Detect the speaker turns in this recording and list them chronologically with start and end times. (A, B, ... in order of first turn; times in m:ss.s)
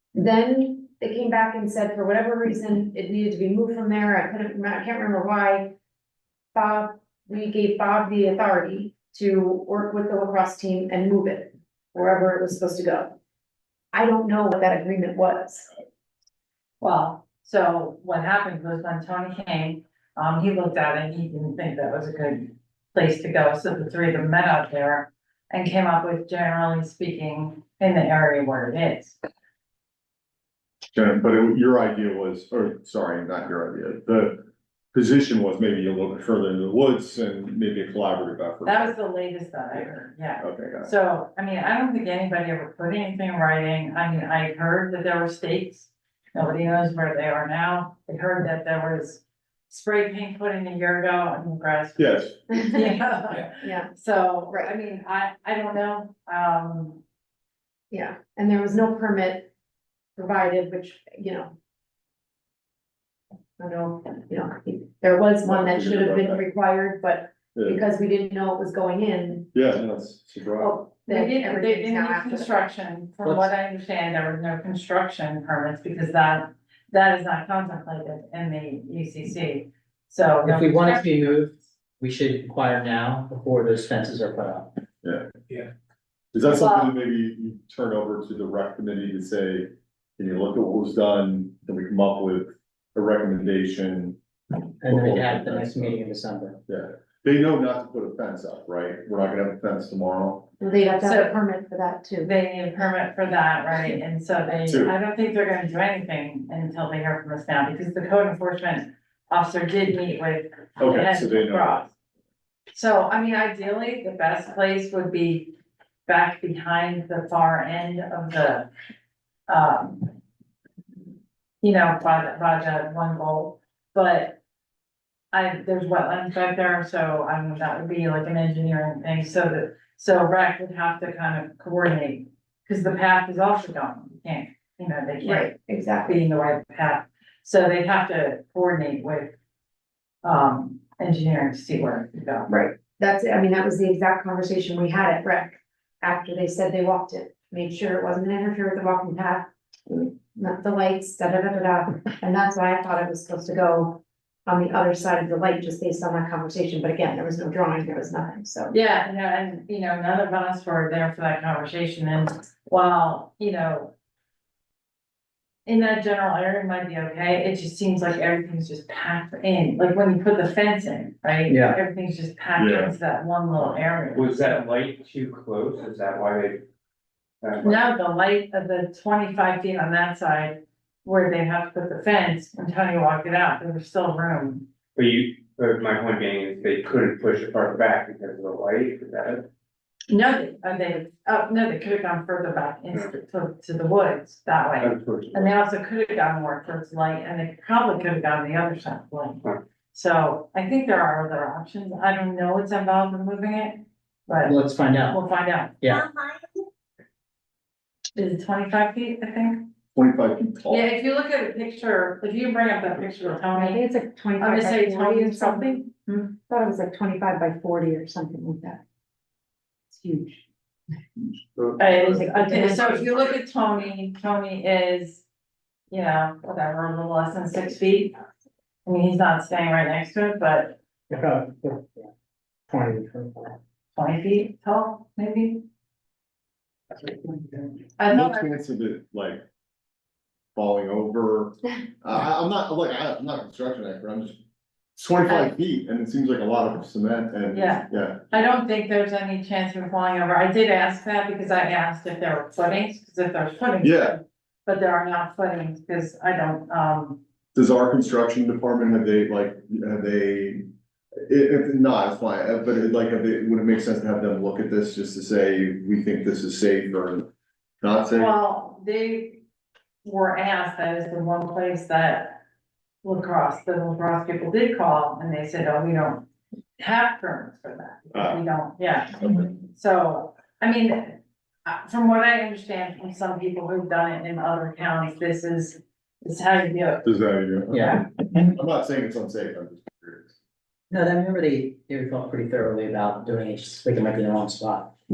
0:00.1-0:05.7 A
0:06.5-0:13.1 A
0:13.9-0:15.7 A
0:16.8-0:29.2 B
0:30.9-0:38.9 C
0:38.6-0:57.0 B
0:40.4-0:40.9 C
0:52.0-0:52.3 C
0:52.5-0:53.0 A
0:53.6-0:53.9 A
0:57.9-0:59.5 A
1:00.2-1:01.5 A
1:03.6-1:09.5 A
1:05.4-1:06.4 C
1:07.5-1:07.8 C
1:09.5-1:10.7 C
1:10.6-1:12.6 A
1:11.1-1:21.4 B
1:13.2-1:13.5 D
1:20.4-1:24.7 D
1:25.0-1:25.3 C
1:26.3-1:34.2 C
1:26.5-1:26.9 B
1:34.8-1:36.6 D
1:34.8-1:36.0 C
1:36.7-1:40.5 C
1:40.6-1:42.3 A
1:41.0-1:41.4 B
1:42.2-1:51.9 B
1:44.6-1:44.9 C
1:50.8-1:51.9 C
1:52.7-1:55.5 B
1:56.1-1:58.7 B
1:59.5-2:00.1 B
2:01.6-2:04.4 B
2:05.3-2:19.3 B
2:15.2-2:16.2 A
2:20.2-2:22.5 B
2:22.5-2:38.7 A
2:38.7-2:43.9 B
2:45.6-2:54.6 B
2:51.5-2:51.8 D
2:52.6-2:52.9 C
2:54.1-2:56.6 E
2:57.4-2:57.8 E
2:57.6-3:04.6 B
3:04.9-3:09.4 E
3:10.1-3:19.4 B
3:14.8-3:15.5 E
3:19.9-3:24.5 B
3:24.4-3:25.2 D
3:25.1-3:25.8 B
3:25.8-3:26.1 D
3:28.2-3:29.7 B
3:29.9-3:30.8 C
3:30.7-3:33.8 B
3:33.5-3:35.8 A
3:34.4-3:36.3 B
3:36.4-3:38.8 A
3:39.9-3:40.4 A
3:41.6-3:42.3 C
3:41.8-3:45.2 B
3:41.9-3:43.2 A
3:45.9-3:48.2 B
3:48.8-3:50.8 B
3:51.1-3:52.1 D
3:52.7-3:53.6 D
3:53.9-3:55.6 B
3:58.0-3:58.5 B
3:58.1-3:59.4 C
4:00.5-4:04.4 C
4:05.0-4:08.3 C
4:07.5-4:17.2 B
4:13.8-4:14.2 C
4:17.5-4:20.6 C
4:21.3-4:27.3 C
4:27.8-4:28.3 C
4:28.1-4:29.4 B
4:30.0-4:32.4 B
4:33.0-4:36.2 B
4:36.8-4:47.1 B
4:38.1-4:38.4 C
4:39.2-4:39.4 C
4:47.0-4:50.3 C
4:47.7-4:48.0 D
4:50.9-4:55.0 D